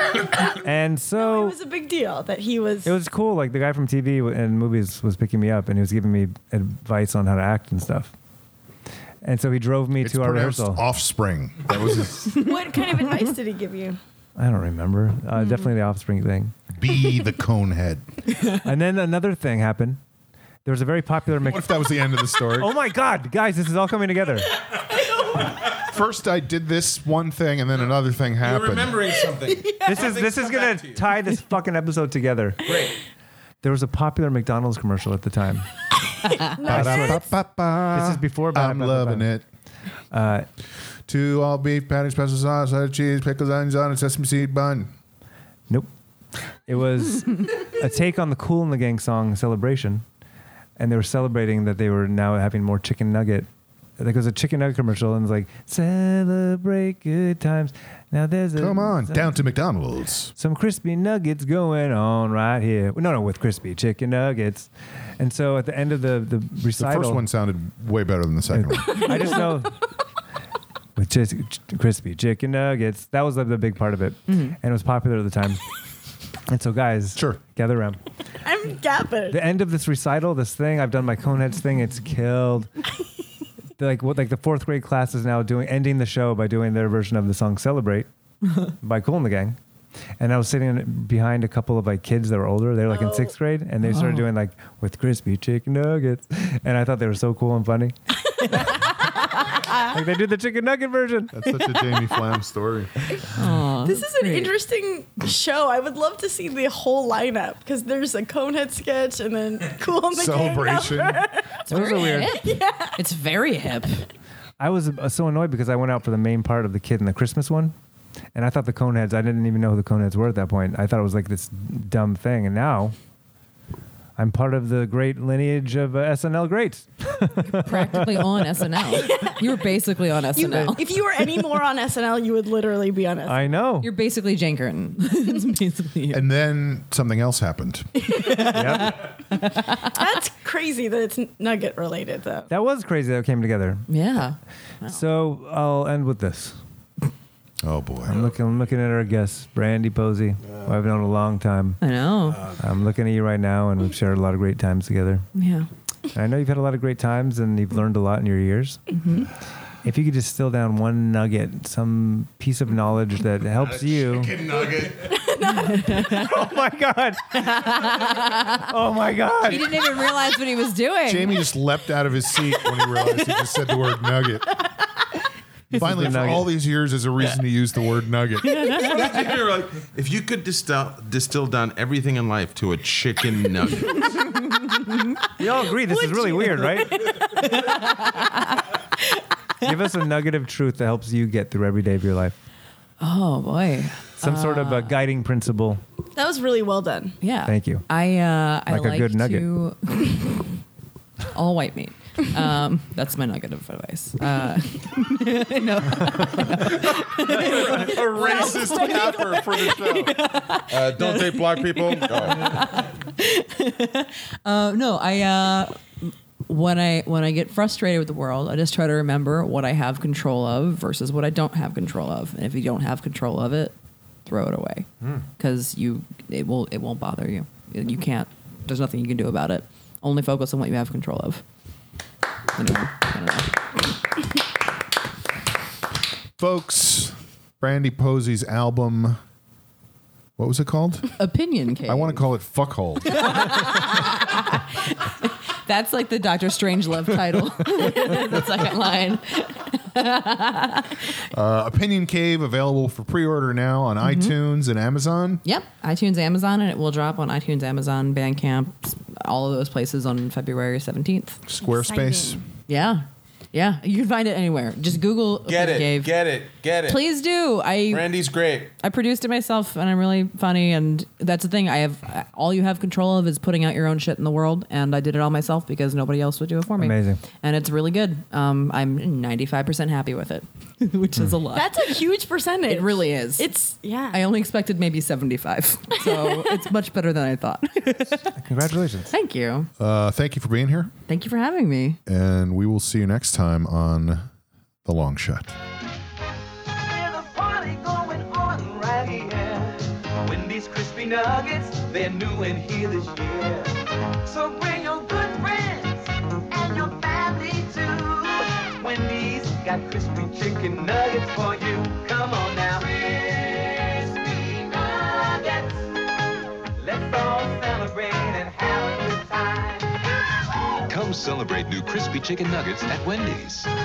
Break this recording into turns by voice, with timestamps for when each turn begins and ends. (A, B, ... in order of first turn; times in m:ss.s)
0:00.5-0:01.6 A
0:01.2-0:02.9 B
0:02.8-0:08.1 A
0:09.2-0:10.8 A
0:10.0-0:12.4 C
0:12.3-0:14.0 B
0:14.4-0:16.6 A
0:16.7-0:18.0 C
0:18.5-0:20.0 A
0:20.6-0:21.8 A
0:21.4-0:22.8 C
0:22.6-0:24.6 A
0:25.7-0:29.0 C
0:28.4-0:31.0 D
0:29.6-0:30.1 B
0:29.8-0:32.7 A
0:32.6-0:33.0 D
0:33.6-0:35.7 A
0:36.2-0:37.3 B
0:36.6-0:39.4 C
0:36.7-0:37.2 A
0:37.9-0:39.3 A
0:40.1-0:40.5 A
0:41.1-0:44.9 C
0:46.7-0:50.0 A
0:50.8-0:53.5 A
0:54.0-0:59.4 A
0:58.6-1:00.3 C
1:00.4-1:07.2 A
1:06.8-1:09.1 C
1:08.5-1:09.8 A
1:08.9-1:09.4 B
1:11.0-1:15.6 A
1:14.3-1:14.6 E
1:16.5-1:18.0 A
1:18.4-1:19.4 B
1:19.3-1:22.7 A
1:23.8-1:28.1 A
1:28.8-1:29.6 A
1:30.2-1:37.9 A
1:33.0-1:33.3 B
1:33.8-1:34.3 E
1:39.8-1:41.3 A
1:41.3-1:42.9 C
1:43.3-1:44.5 E
1:43.8-1:53.0 B
1:50.1-1:51.3 C
1:51.6-1:52.4 E
1:51.7-1:52.4 A
1:53.0-1:54.1 E
1:54.6-1:57.7 A
1:58.3-2:03.0 A
2:04.2-2:08.1 A
2:07.5-2:10.9 E
2:08.8-2:09.7 B
2:10.3-2:13.5 B
2:13.2-2:13.9 A
2:13.8-2:16.2 E
2:16.1-2:17.9 C
2:18.0-2:19.9 E
2:18.4-2:19.0 A
2:19.8-2:22.5 B
2:22.5-2:23.9 A
2:23.9-2:25.0 E
2:24.9-2:26.6 A
2:27.6-2:28.2 C
2:28.0-2:31.8 A
2:31.8-2:32.5 E
2:32.4-2:35.3 A
2:35.3-2:35.7 E
2:36.1-2:38.8 A
2:38.9-2:39.3 E
2:39.8-2:44.3 A
2:43.6-2:45.2 D
2:45.0-2:46.3 B
2:45.7-2:46.3 E
2:46.1-2:49.9 A
2:47.3-2:48.6 E
2:49.4-2:51.4 E
2:51.0-2:54.5 C
2:55.7-2:58.6 C
2:55.7-2:56.5 A
2:58.4-2:59.0 E
2:58.7-3:04.0 D
3:04.6-3:05.2 E
3:05.4-3:07.0 A
3:05.8-3:07.8 B
3:07.0-3:08.6 E
3:09.6-3:12.4 A
3:13.0-3:14.9 E
3:14.2-3:15.8 A
3:16.1-3:17.2 B
3:17.2-3:20.5 E
3:17.4-3:17.9 A
3:18.7-3:19.4 A
3:21.3-3:43.7 E
3:26.5-3:32.7 D
3:28.2-3:29.7 B
3:44.2-3:51.4 E
3:52.5-3:53.6 E
3:56.4-3:59.2 C
4:00.4-4:01.2 C
4:01.2-4:02.2 E
4:01.8-4:03.4 C
4:03.1-4:11.2 E
4:11.3-4:15.4 C
4:14.0-4:14.3 E
4:15.4-4:21.4 E
4:21.4-4:22.4 C
4:21.6-4:22.4 B
4:22.7-4:26.1 E
4:25.4-4:27.0 D
4:26.8-4:28.1 E
4:27.9-4:28.7 D
4:28.8-4:42.0 E
4:36.8-4:37.2 A
4:41.5-4:44.2 B
4:42.6-4:43.5 E
4:44.1-4:48.3 E
4:46.1-4:46.4 B
4:48.3-4:49.1 A
4:49.1-4:49.7 E
4:49.8-4:50.9 C
4:51.1-4:52.0 E
4:52.0-4:54.3 C
4:54.8-4:55.5 C
4:56.7-5:16.1 F
5:16.8-5:20.0 F
5:20.9-5:23.7 G